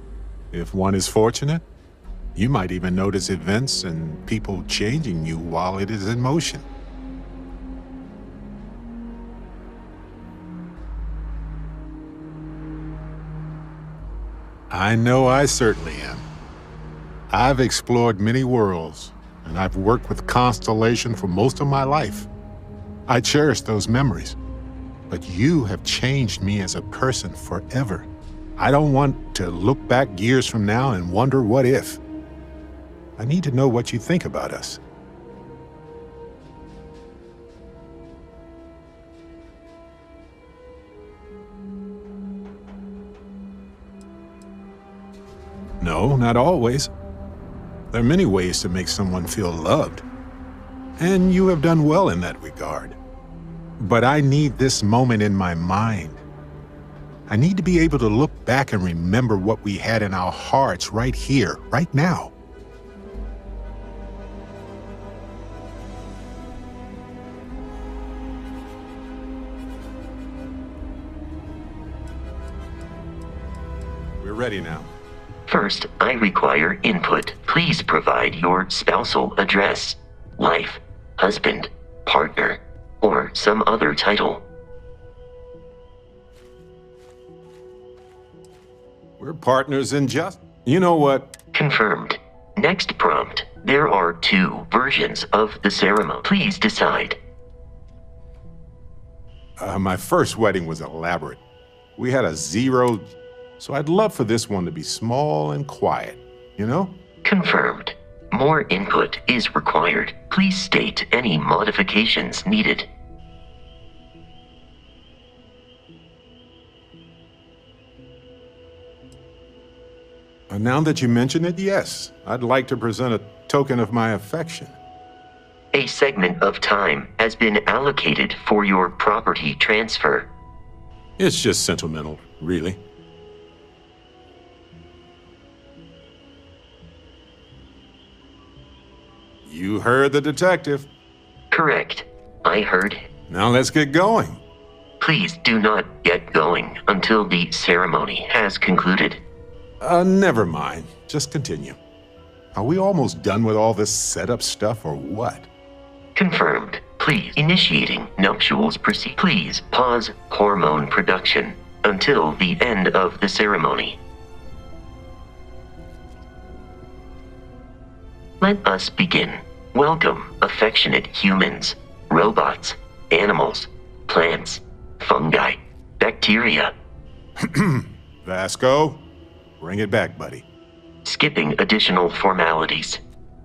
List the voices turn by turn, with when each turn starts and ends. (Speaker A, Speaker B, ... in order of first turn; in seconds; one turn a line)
Speaker A: 0.5-1.6
Speaker A: 2.4-6.7
Speaker A: 14.7-16.2
Speaker A: 17.3-22.3
Speaker A: 23.1-24.4
Speaker A: 25.1-32.0
Speaker A: 33.2-34.8
Speaker A: 45.8-46.9
Speaker A: 47.9-50.0
Speaker A: 51.0-53.0
Speaker A: 53.8-56.2
Speaker A: 57.3-62.3
Speaker A: 74.2-74.9
Speaker B: 75.5-84.4
Speaker A: 89.2-91.3
Speaker B: 91.5-97.2
Speaker A: 99.6-101.4
Speaker A: 102.0-106.9
Speaker B: 107.2-112.9
Speaker A: 120.5-124.8
Speaker B: 125.7-130.3
Speaker A: 131.2-132.8
Speaker A: 139.4-140.9
Speaker B: 141.5-143.0
Speaker A: 143.3-144.4
Speaker B: 145.0-149.2
Speaker A: 149.8-151.8
Speaker A: 152.5-155.5
Speaker B: 156.1-164.0
Speaker B: 168.4-176.7
Speaker A: 177.4-179.0
Speaker A: 179.6-180.4
Speaker B: 181.0-183.0